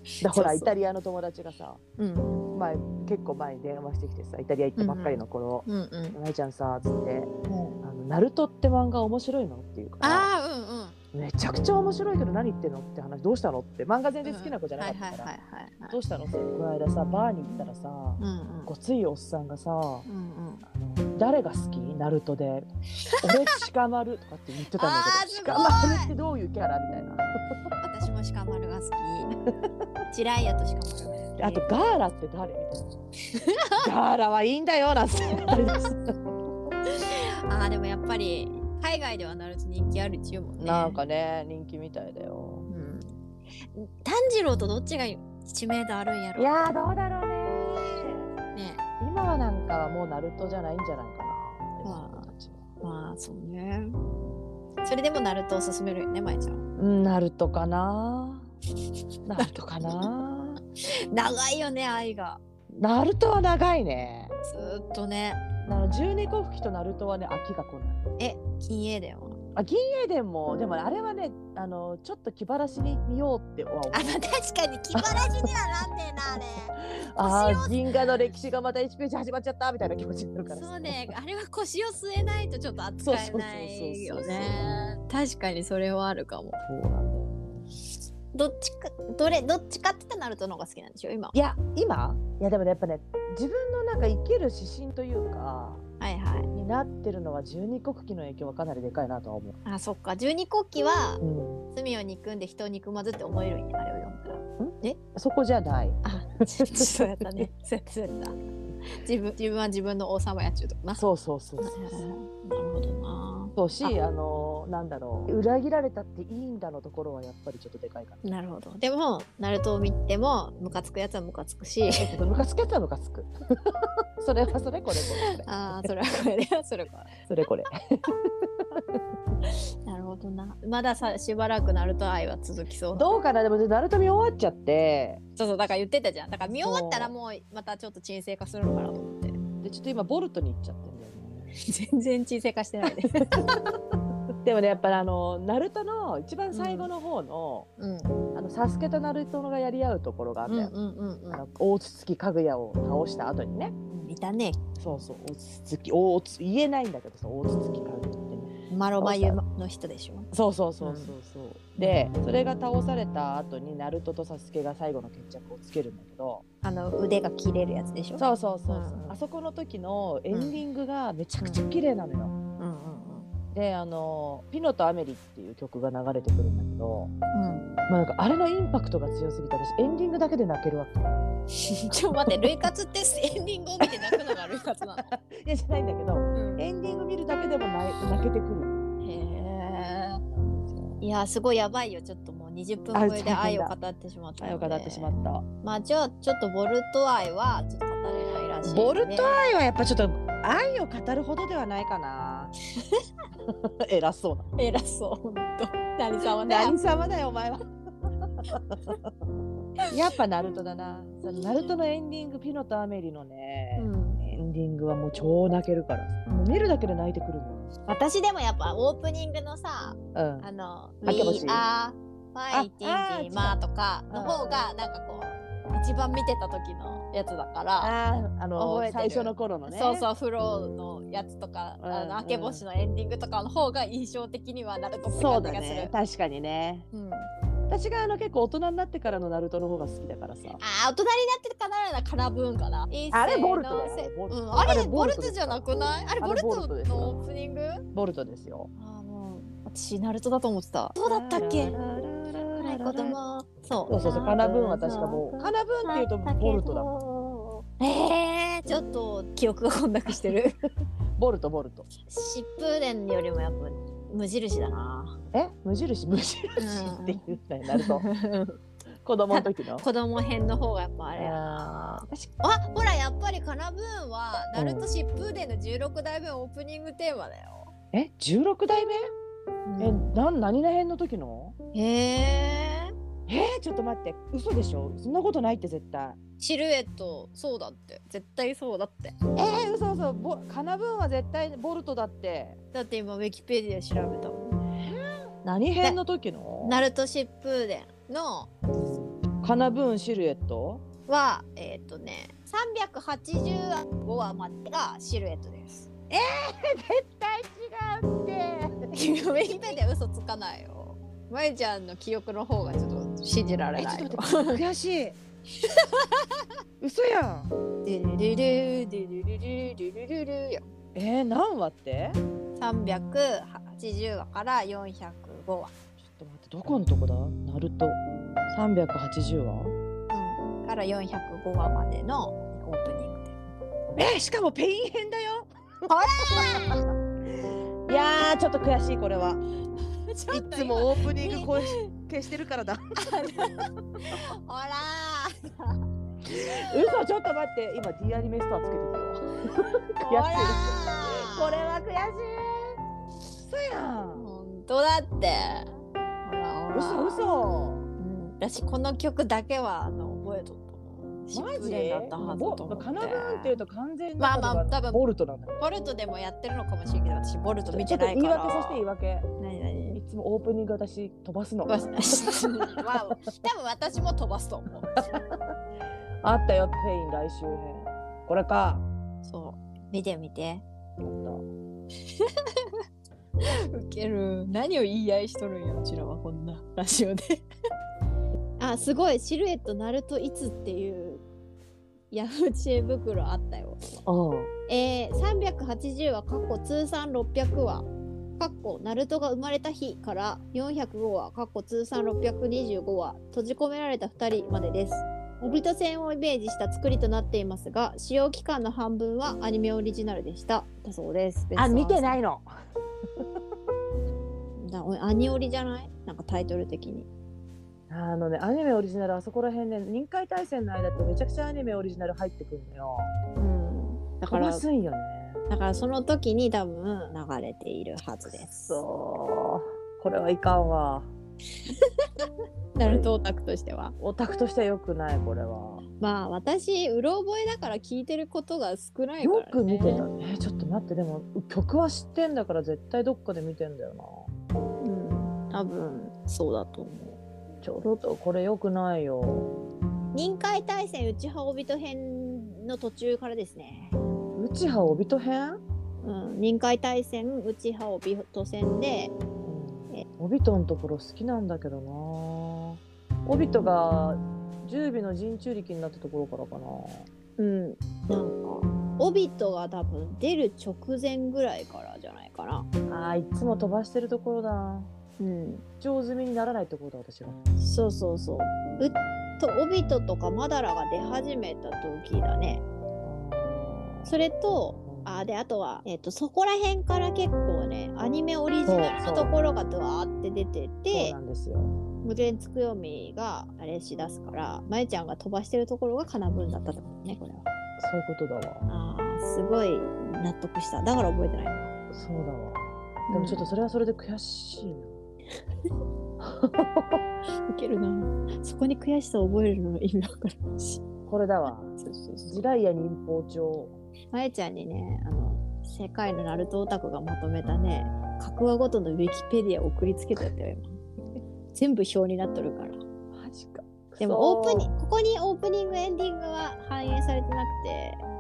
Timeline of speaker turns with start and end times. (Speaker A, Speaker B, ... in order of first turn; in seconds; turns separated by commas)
Speaker A: 0.2-0.8, Speaker B: 0.2-1.8, Speaker A: 2.0-2.5, Speaker B: 2.5-7.3, Speaker A: 4.8-6.2, Speaker A: 7.5-7.8, Speaker B: 7.8-10.3, Speaker A: 10.0-11.0, Speaker B: 11.1-15.3, Speaker A: 14.2-16.0, Speaker B: 15.9-20.1, Speaker A: 17.5-18.7, Speaker A: 20.1-20.6, Speaker B: 20.7-22.7, Speaker B: 23.2-27.3, Speaker A: 24.8-26.1, Speaker A: 27.8-29.3, Speaker A: 30.1-31.7, Speaker B: 31.4-32.9, Speaker A: 33.4-33.8, Speaker B: 33.8-36.1, Speaker A: 36.9-41.0, Speaker B: 40.6-42.7, Speaker A: 42.7-43.1, Speaker A: 43.7-46.7, Speaker B: 46.4-48.3, Speaker A: 48.5-48.8, Speaker B: 49.0-52.6, Speaker A: 51.8-52.3, Speaker A: 52.8-54.0, Speaker A: 54.8-56.6, Speaker B: 56.8-58.5, Speaker B: 59.3-60.6, Speaker A: 59.4-60.1, Speaker A: 61.1-62.4, Speaker B: 62.7-64.3, Speaker A: 64.4-65.4, Speaker B: 65.6-68.0, Speaker A: 68.2-69.4, Speaker B: 69.5-74.2, Speaker A: 73.9-77.8, Speaker B: 74.9-75.5, Speaker B: 77.0-81.1, Speaker A: 80.5-86.6, Speaker B: 83.0-85.0, Speaker B: 86.7-87.7, Speaker A: 88.3-91.4, Speaker B: 91.3-95.8, Speaker A: 96.0-96.5, Speaker B: 96.5-99.6, Speaker A: 99.6-101.2, Speaker B: 101.2-101.7, Speaker A: 101.7-105.0, Speaker B: 104.6-106.0, Speaker A: 106.0-108.3, Speaker B: 106.6-107.5, Speaker A: 109.0-111.0, Speaker B: 111.0-112.0, Speaker A: 111.6-113.9, Speaker B: 113.5-118.2, Speaker A: 118.2-122.1, Speaker B: 122.0-125.9, Speaker A: 125.0-127.2, Speaker B: 127.3-128.2, Speaker A: 129.8-133.1, Speaker B: 132.9-135.2, Speaker A: 135.3-139.4, Speaker B: 136.5-137.1, Speaker B: 139.6-141.6, Speaker A: 141.6-143.4, Speaker B: 143.1-143.4, Speaker B: 144.4-147.7, Speaker A: 146.5-146.9, Speaker A: 147.8-148.2, Speaker B: 148.3-150.7, Speaker A: 150.4-151.4, Speaker B: 151.3-153.7, Speaker A: 153.9-154.6, Speaker B: 154.8-159.4, Speaker A: 158.7-160.3, Speaker B: 160.3-166.4, Speaker A: 160.8-161.2, Speaker A: 166.6-169.2, Speaker B: 168.2-172.3, Speaker A: 170.3-170.6, Speaker A: 172.6-173.3, Speaker B: 173.5-177.1, Speaker A: 177.3-177.7, Speaker B: 177.9-181.2, Speaker A: 181.9-185.1, Speaker B: 182.3-182.6, Speaker B: 185.0-188.8, Speaker A: 186.3-186.7, Speaker A: 189.0-190.2, Speaker B: 190.3-191.1, Speaker A: 191.0-199.4, Speaker B: 192.9-193.7, Speaker B: 194.4-195.4, Speaker B: 198.7-202.5, Speaker B: 203.4-204.5, Speaker A: 204.6-206.8, Speaker B: 206.4-207.7, Speaker B: 208.5-209.0, Speaker B: 209.9-217.7, Speaker A: 213.8-214.2, Speaker A: 217.9-227.9, Speaker B: 220.2-220.5, Speaker B: 221.0-221.7, Speaker B: 222.5-223.6, Speaker B: 224.1-224.7, Speaker B: 227.8-230.1, Speaker A: 228.6-235.9, Speaker B: 231.8-232.7, Speaker B: 235.1-236.8, Speaker A: 236.9-237.3, Speaker B: 237.7-240.6, Speaker A: 240.6-247.8, Speaker B: 243.1-245.6, Speaker B: 246.2-247.3, Speaker B: 247.9-248.7, Speaker A: 248.8-251.8, Speaker B: 251.0-253.2, Speaker A: 252.5-260.6, Speaker B: 253.9-256.9, Speaker B: 261.2-261.9, Speaker A: 262.1-265.2, Speaker B: 265.3-268.1, Speaker A: 266.6-268.6, Speaker B: 269.0-269.9, Speaker A: 269.3-277.7, Speaker B: 271.2-272.3, Speaker B: 274.6-274.9, Speaker B: 277.9-279.0, Speaker A: 279.7-280.1, Speaker B: 279.8-281.6, Speaker A: 281.7-282.9, Speaker B: 283.3-286.2, Speaker A: 286.4-289.2, Speaker B: 289.4-292.6, Speaker A: 292.7-294.6, Speaker B: 294.7-296.9, Speaker A: 296.6-298.5, Speaker B: 298.7-300.8, Speaker A: 301.1-305.9, Speaker B: 306.1-308.9, Speaker A: 308.9-314.6, Speaker B: 309.4-309.8, Speaker B: 313.8-315.2, Speaker A: 315.7-316.3, Speaker B: 316.8-317.5, Speaker A: 317.8-320.6, Speaker B: 320.9-322.2, Speaker A: 322.6-325.7, Speaker B: 326.0-329.8, Speaker A: 330.1-333.4, Speaker B: 334.0-336.8, Speaker A: 335.9-336.8, Speaker B: 337.9-339.4, Speaker A: 340.1-341.9, Speaker B: 340.3-343.3, Speaker A: 343.0-345.8, Speaker B: 346.3-352.8, Speaker A: 346.8-347.0, Speaker A: 349.6-351.7, Speaker B: 353.3-354.3, Speaker A: 354.1-357.3, Speaker B: 356.7-357.9, Speaker A: 358.0-363.6, Speaker B: 361.3-365.6, Speaker A: 364.2-365.0, Speaker A: 365.6-368.9, Speaker B: 367.7-369.3, Speaker A: 369.4-370.0, Speaker B: 369.9-372.4, Speaker A: 371.7-374.9, Speaker B: 376.2-378.8, Speaker A: 379.2-380.6, Speaker B: 381.0-381.4, Speaker A: 383.7-387.4, Speaker A: 388.6-391.2, Speaker A: 392.1-394.0, Speaker B: 394.1-394.5, Speaker A: 394.7-412.2, Speaker B: 411.6-412.5, Speaker A: 414.6-417.1, Speaker B: 417.9-423.1, Speaker A: 423.4-424.7, Speaker B: 424.3-425.4, Speaker A: 425.5-428.8, Speaker B: 428.3-431.1, Speaker A: 432.7-433.9, Speaker B: 432.8-433.1, Speaker B: 434.0-435.8, Speaker A: 436.0-440.1, Speaker B: 439.2-444.3, Speaker A: 444.8-447.2, Speaker B: 447.6-449.5, Speaker A: 450.1-454.0, Speaker B: 454.4-455.6, Speaker A: 456.0-459.1, Speaker B: 459.4-467.1, Speaker A: 467.4-472.7, Speaker B: 472.9-474.9, Speaker A: 475.2-475.6, Speaker B: 475.8-477.4, Speaker A: 477.6-482.6, Speaker B: 483.0-484.2, Speaker A: 484.1-491.2, Speaker B: 484.8-485.1, Speaker B: 488.7-489.3, Speaker B: 490.9-491.8, Speaker A: 492.0-497.5, Speaker B: 497.8-498.7, Speaker A: 498.7-501.7, Speaker B: 501.9-505.0, Speaker A: 503.1-503.5, Speaker B: 506.2-507.0, Speaker A: 507.5-510.8, Speaker B: 511.1-511.8, Speaker A: 511.7-512.4, Speaker B: 512.3-513.8, Speaker A: 514.1-520.8, Speaker A: 521.5-522.8, Speaker B: 523.1-524.7, Speaker A: 524.0-528.0